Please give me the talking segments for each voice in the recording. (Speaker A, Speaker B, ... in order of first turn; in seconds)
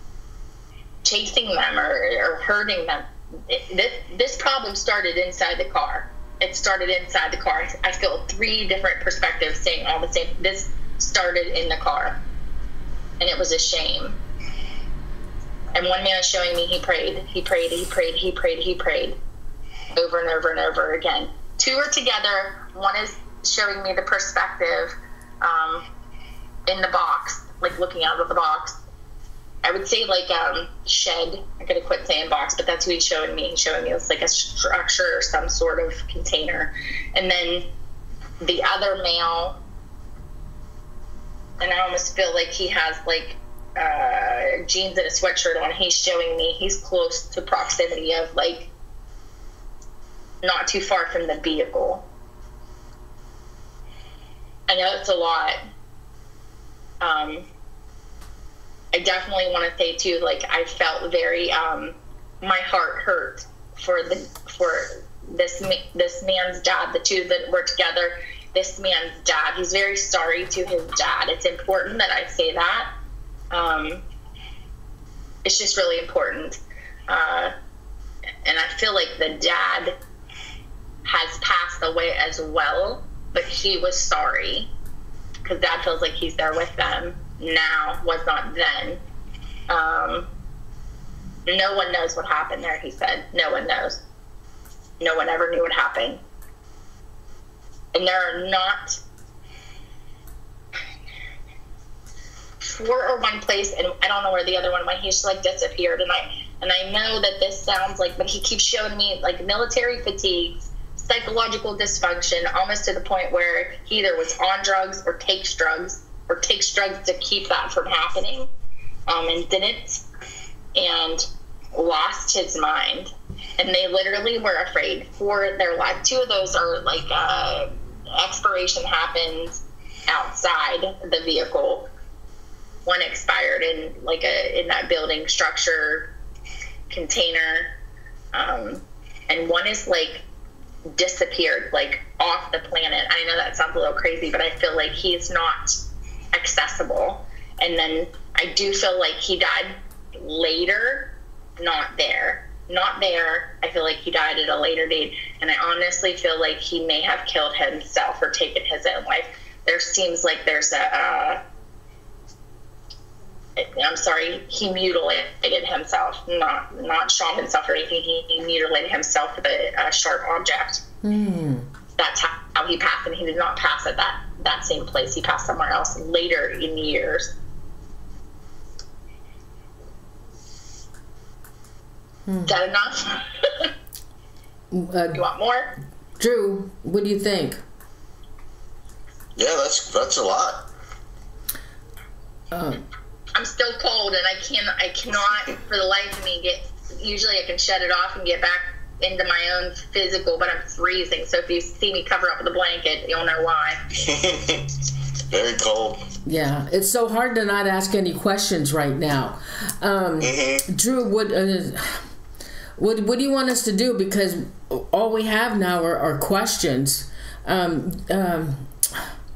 Speaker A: 1.0-12.2, 13.2-14.2, 15.7-19.1, 19.9-25.8, 26.7-28.8, 29.6-37.7, 38.4-39.6, 41.6-48.7, 50.4-52.0, 54.7-55.6, 57.0-57.5, 58.9-72.9, 73.5-74.0, 75.4-77.5, 78.4-79.9, 81.0-84.7, 85.4-89.0, 89.7-90.3, 91.5-94.0, 95.0-96.2, 97.9-99.0, 102.6-118.5, 119.1-120.0, 120.7-131.8, 132.8-136.1, 136.9-137.7, 138.3-140.2, 140.9-145.8, 146.3-161.4, 163.6-170.8, 172.0-177.3, 182.5-183.7, 185.1-185.7, 193.3-203.8
Speaker B: 171.0-171.7, 182.3-182.5, 184.7-185.2, 186.2-187.6, 192.5-192.8, 206.2-212.1, 212.8-219.1
Speaker C: 189.4-190.7, 204.0-204.7, 205.3-206.0, 210.2-210.7